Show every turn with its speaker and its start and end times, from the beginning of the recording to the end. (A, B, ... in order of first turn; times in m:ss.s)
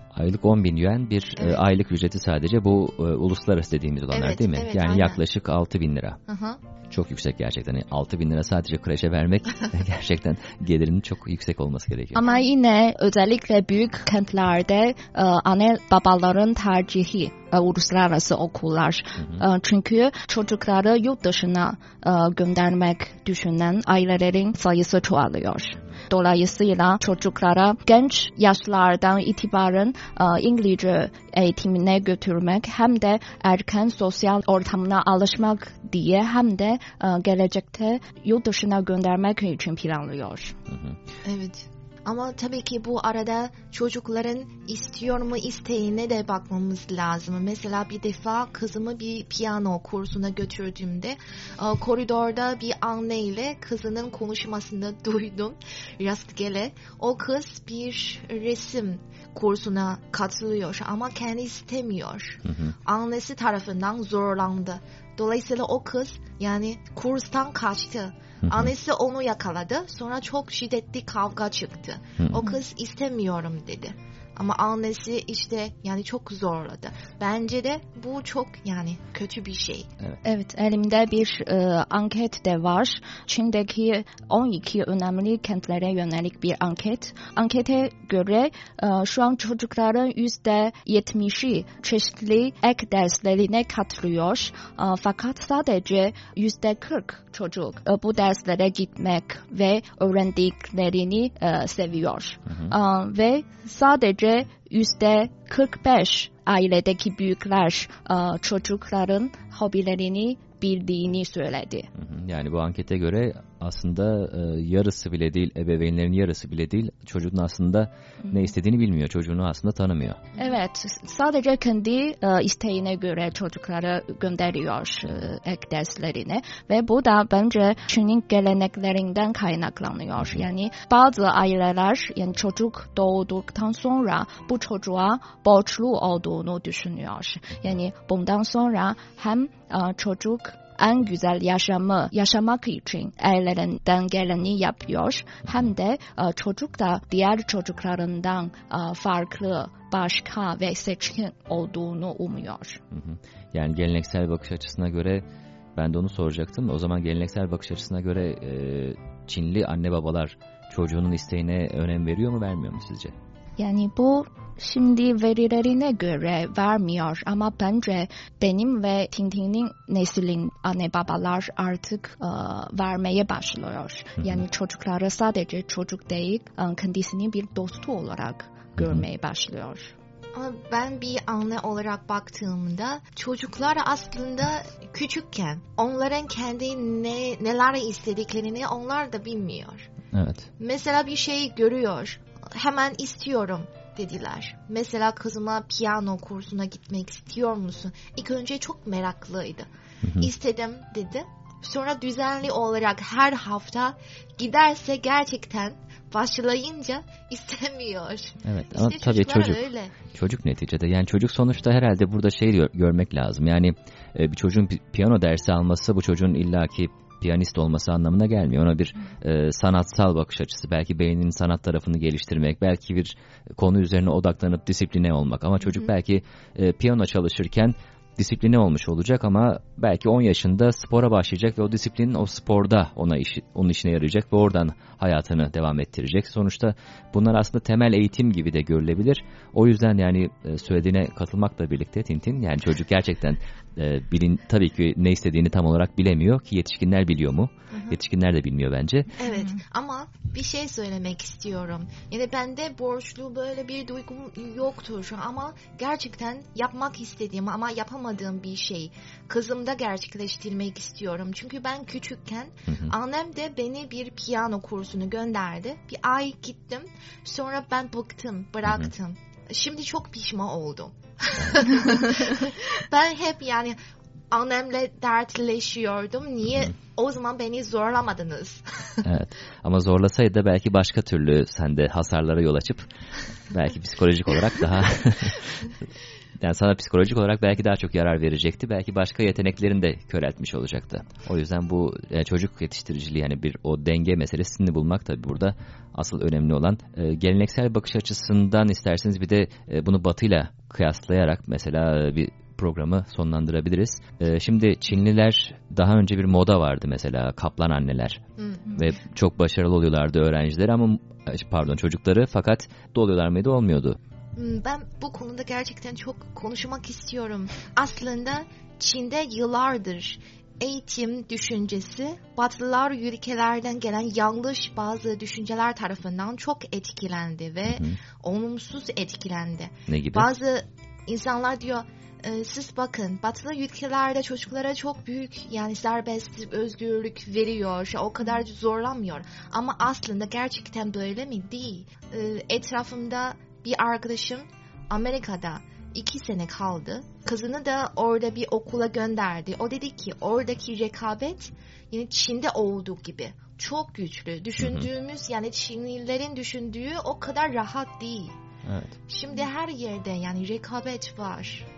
0:00.1-0:06.2 A
0:01.4-0:01.6 B
0:04.1-0:05.2 B
0:06.3-0:06.6 B
0:06.9-0:12.2 A
0:12.2-0:40.6 C
0:40.7-0:41.0 A
0:41.2-1:19.9 B
1:02.4-1:02.7 A
1:08.4-1:08.7 A
1:20.2-1:51.9 C
1:52.0-2:00.2 A
2:00.4-2:32.8 C
2:32.9-2:35.2 A
2:35.8-2:43.1 A
2:43.6-2:59.9 C
2:58.8-2:59.0 A
3:00.3-3:09.9 B
3:10.1-3:10.5 A
3:10.6-3:30.0 B
3:20.0-3:20.3 A
3:28.4-4:09.2 A
4:07.7-4:08.0 B
4:09.2-4:33.8 B
4:22.7-4:23.0 A
4:34.3-4:39.1 B
4:39.0-4:42.9 A
4:43.5-4:45.7 A
4:46.4-5:14.0 A
5:08.4-5:08.8 B
5:14.4-5:58.4 B
5:27.7-5:28.0 A
5:29.9-5:30.3 A
5:54.6-5:54.9 A
5:58.6-5:59.0 A
5:59.1-6:01.7 B